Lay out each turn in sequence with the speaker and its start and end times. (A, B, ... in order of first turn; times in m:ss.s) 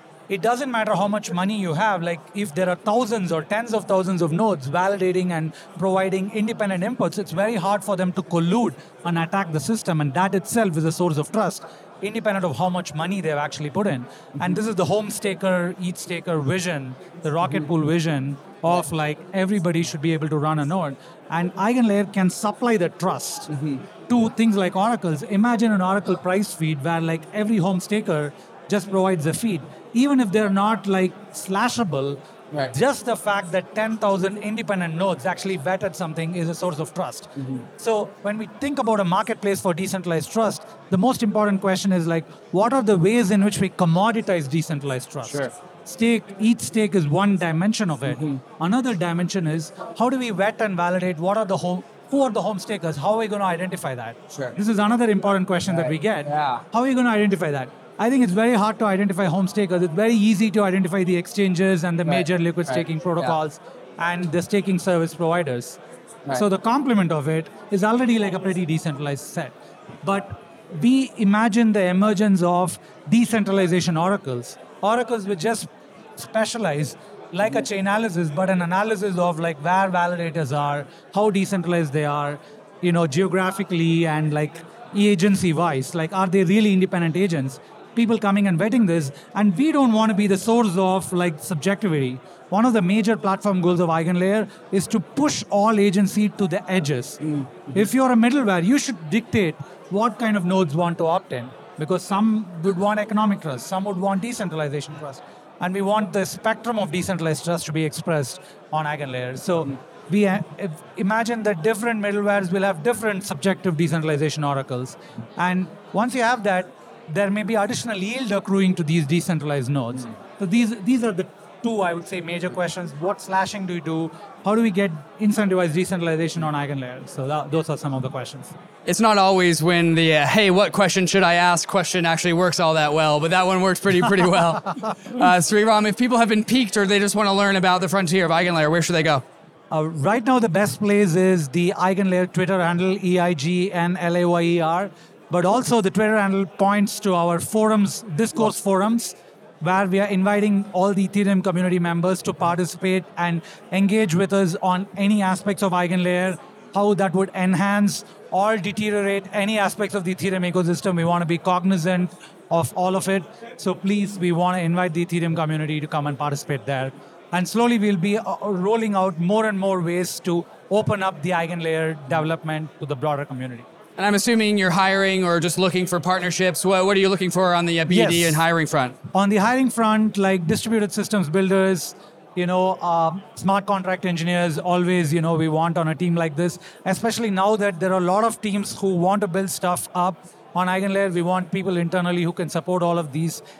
0:00.3-0:23.5 A
0:23.5-0:23.8 B
0:24.1-1:05.8 A
0:55.7-0:56.6 B
1:02.0-1:03.3 B
1:06.3-1:37.2 A
1:37.7-2:08.6 A
2:08.8-2:19.2 B
2:19.7-2:53.7 A
2:54.0-2:59.0 B
2:57.9-2:58.4 A
2:59.1-3:13.4 A